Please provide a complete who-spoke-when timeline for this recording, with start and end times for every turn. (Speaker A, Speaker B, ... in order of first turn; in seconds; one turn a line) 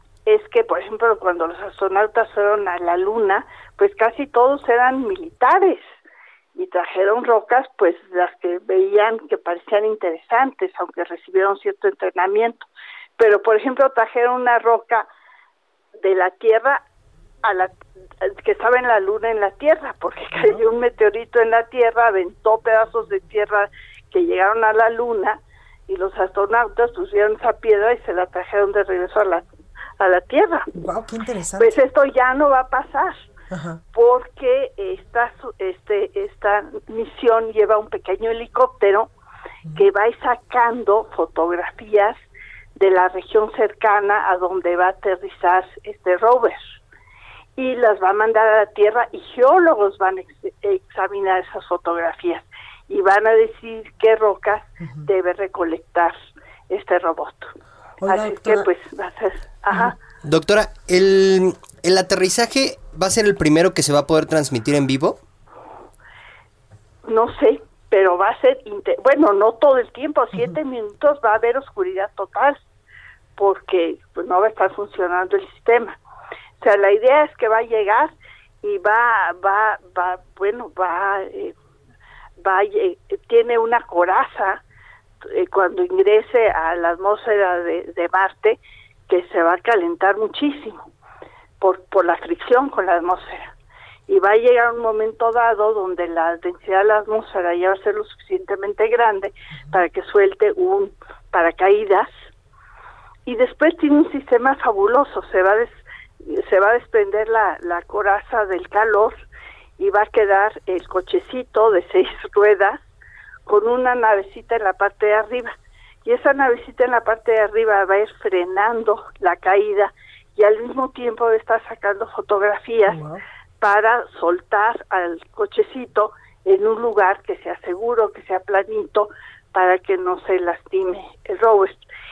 Speaker A: 0.2-5.8
Speaker A: 6.5-15.1
Speaker A: 16.0-16.8
Speaker A: 17.4-29.5
Speaker B: 20.4-20.6
Speaker A: 30.0-30.7
Speaker B: 30.8-31.8
Speaker A: 31.6-33.2
Speaker B: 33.5-33.8
Speaker A: 33.9-39.1
Speaker A: 39.7-42.2
Speaker A: 42.8-46.8
Speaker A: 47.6-56.1
Speaker A: 56.7-57.5
Speaker B: 58.0-58.7
Speaker A: 58.0-60.0
Speaker C: 60.3-65.2
Speaker A: 67.0-72.6
Speaker A: 73.4-76.0
Speaker A: 76.6-81.5
Speaker A: 82.4-84.6
Speaker A: 85.2-90.8
Speaker A: 91.6-93.5
Speaker A: 94.1-102.1
Speaker A: 103.2-109.2
Speaker A: 109.8-112.8
Speaker A: 113.5-115.5
Speaker A: 116.0-123.0
Speaker B: 122.9-123.2
Speaker A: 123.6-131.8